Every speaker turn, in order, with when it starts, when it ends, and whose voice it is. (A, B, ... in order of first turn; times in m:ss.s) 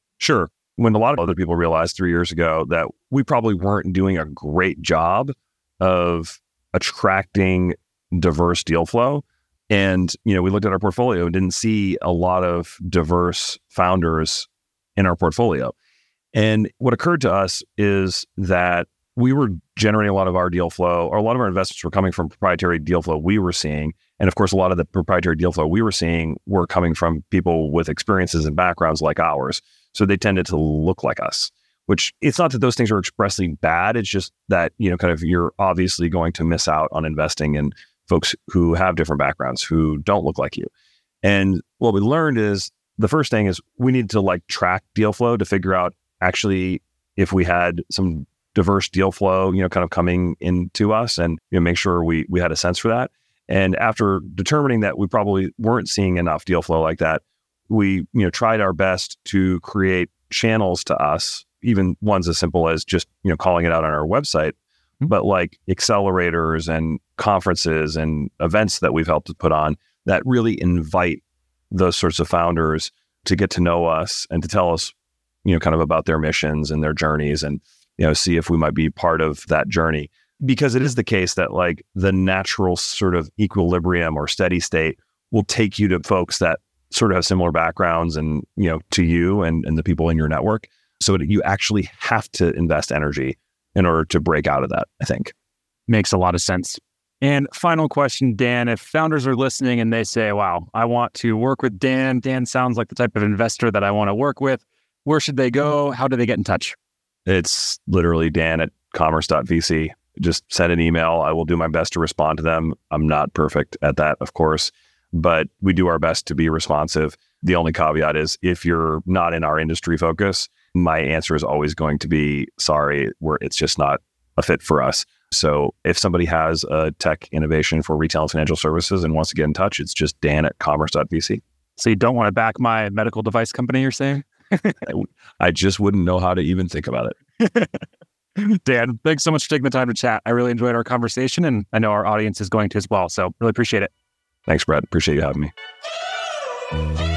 0:00.2-0:15.7 A
0:16.3-0:40.7 A
0:41.2-1:14.9 A
1:15.4-1:35.3 A
1:35.9-1:46.8 B
1:47.3-2:11.4 A
2:11.8-2:14.8 B
2:14.8-2:17.2 A
2:17.4-2:17.8 B
2:18.4-2:23.9 B
2:24.5-2:25.5 A